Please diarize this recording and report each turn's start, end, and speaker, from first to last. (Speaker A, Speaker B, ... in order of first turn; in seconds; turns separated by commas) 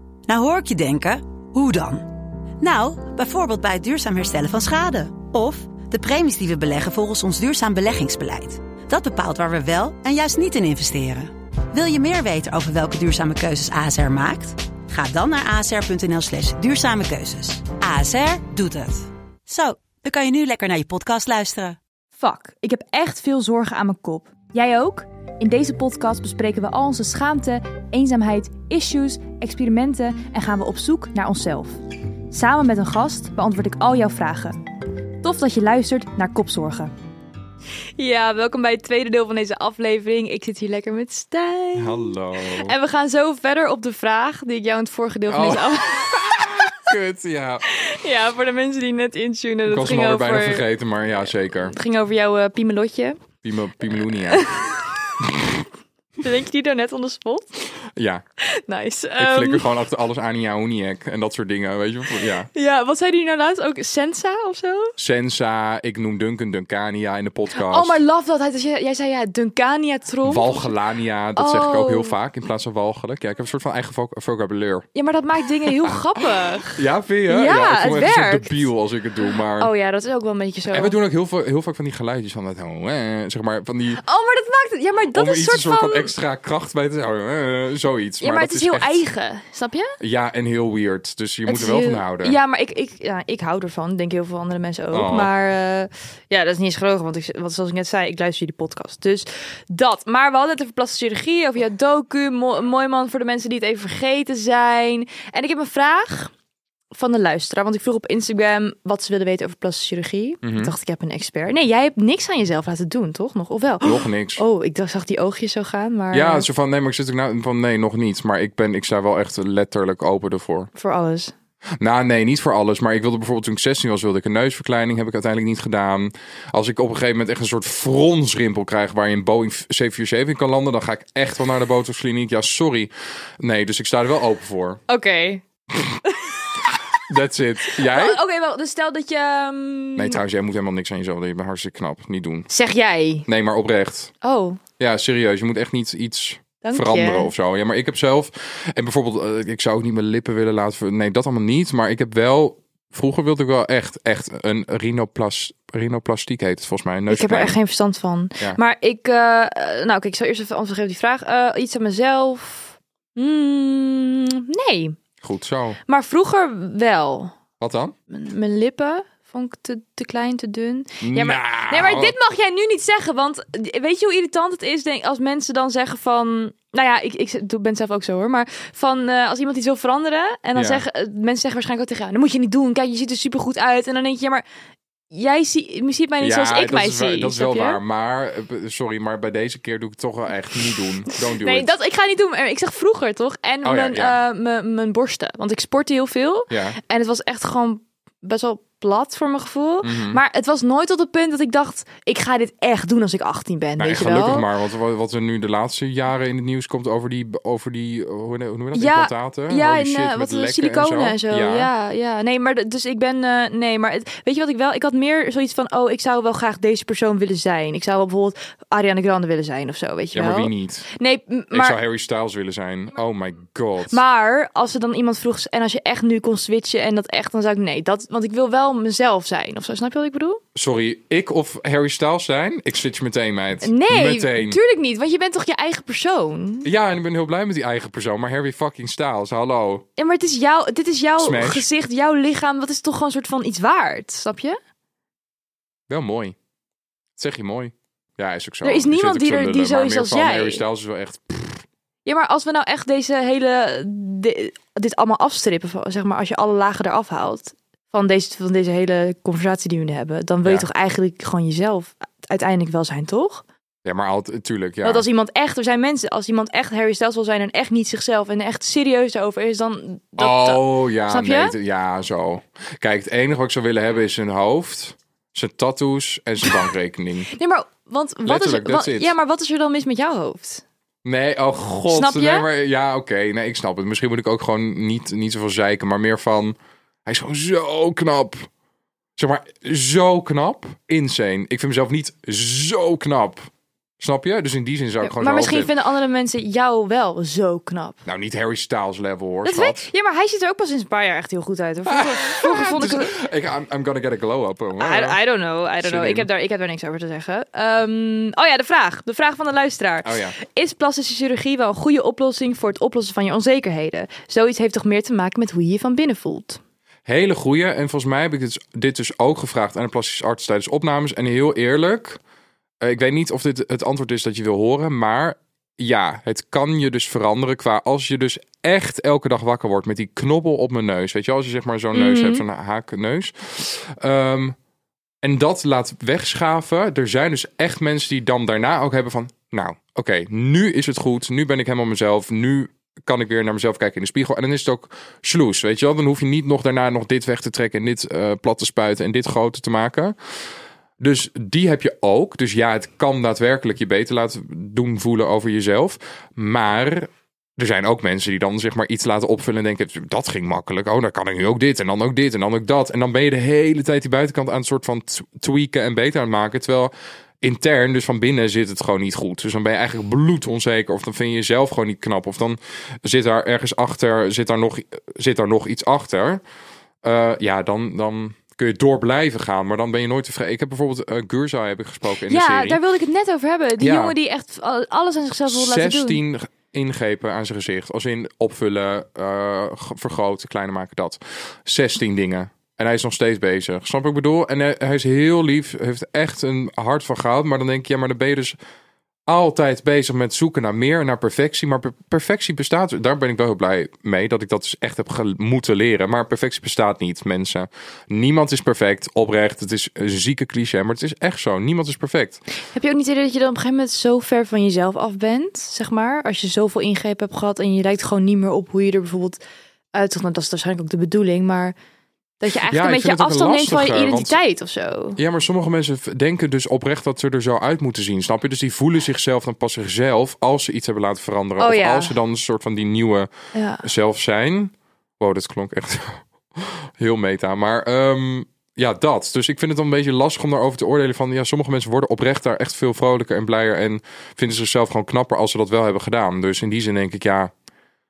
Speaker A: 0.3-21.8, Speaker B: 22.2-31.8, Speaker B: 32.3-34.6, Speaker B: 35.2-36.9, Speaker B: 38.0-46.6, Speaker C: 41.8-42.8, Speaker C: 45.3-47.6, Speaker B: 47.7-50.6, Speaker C: 49.7-51.7, Speaker B: 51.6-53.2, Speaker C: 53.4-54.5, Speaker B: 54.3-54.9, Speaker C: 55.2-55.6, Speaker B: 56.2-57.5, Speaker C: 58.0-58.2, Speaker B: 58.4-59.7, Speaker C: 59.2-62.5, Speaker B: 62.2-65.0, Speaker C: 65.0-68.0, Speaker B: 67.5-70.8, Speaker C: 70.2-74.9, Speaker B: 71.4-72.2, Speaker B: 75.0-78.7, Speaker C: 76.8-79.7, Speaker B: 79.6-81.0, Speaker C: 80.7-84.0, Speaker B: 84.0-86.1, Speaker C: 85.1-89.0, Speaker B: 88.2-90.0, Speaker C: 90.0-92.4, Speaker B: 91.5-106.3, Speaker C: 94.9-95.3, Speaker B: 106.9-116.5, Speaker C: 110.4-110.7, Speaker C: 113.8-114.4, Speaker C: 116.1-120.7, Speaker B: 120.8-121.3, Speaker C: 121.8-134.8, Speaker B: 134.9-135.4, Speaker C: 135.7-136.0, Speaker B: 136.0-136.7, Speaker C: 137.1-138.2, Speaker B: 137.7-140.2, Speaker C: 140.0-142.5, Speaker B: 142.5-143.3, Speaker C: 143.3-144.1, Speaker B: 144.2-144.6, Speaker C: 144.8-157.6, Speaker B: 146.6-147.3, Speaker B: 157.1-165.0, Speaker C: 165.2-165.8, Speaker B: 165.9-167.4, Speaker C: 167.6-167.9, Speaker B: 168.1-184.4, Speaker C: 171.0-172.2, Speaker C: 180.6-180.8, Speaker B: 185.1-187.8, Speaker C: 186.2-191.7, Speaker B: 191.3-204.5, Speaker C: 193.6-194.2, Speaker C: 196.5-196.8, Speaker C: 199.8-200.2, Speaker C: 203.8-211.7, Speaker B: 208.7-221.8, Speaker C: 220.1-220.9, Speaker C: 221.5-224.0, Speaker B: 223.9-230.4, Speaker C: 230.6-234.6, Speaker B: 233.6-236.7, Speaker C: 236.7-239.8, Speaker B: 240.0-244.6, Speaker C: 241.2-241.7, Speaker C: 245.9-246.4, Speaker C: 247.2-251.7, Speaker B: 248.6-250.6, Speaker B: 252.1-263.4, Speaker C: 263.9-265.1, Speaker B: 264.8-271.6, Speaker C: 270.2-277.3, Speaker B: 277.3-280.6, Speaker C: 278.3-279.1, Speaker C: 281.1-288.5, Speaker B: 281.9-282.5, Speaker C: 289.2-293.5, Speaker C: 294.0-295.7, Speaker B: 295.0-298.0, Speaker C: 298.1-299.9, Speaker B: 299.4-303.1, Speaker C: 301.9-305.2, Speaker B: 304.8-316.6, Speaker C: 305.8-306.3, Speaker C: 310.0-310.4, Speaker C: 317.1-322.2, Speaker C: 322.8-334.6, Speaker B: 331.9-332.4, Speaker C: 335.2-350.1, Speaker C: 351.0-376.4, Speaker C: 377.0-382.8, Speaker B: 382.3-386.2, Speaker C: 383.8-384.1, Speaker C: 385.5-398.6, Speaker C: 399.3-412.4, Speaker B: 412.7-419.4, Speaker B: 419.9-421.8, Speaker B: 422.4-425.2, Speaker C: 422.7-424.4, Speaker C: 425.2-433.3, Speaker B: 431.6-432.1, Speaker B: 433.5-433.9, Speaker C: 433.8-447.5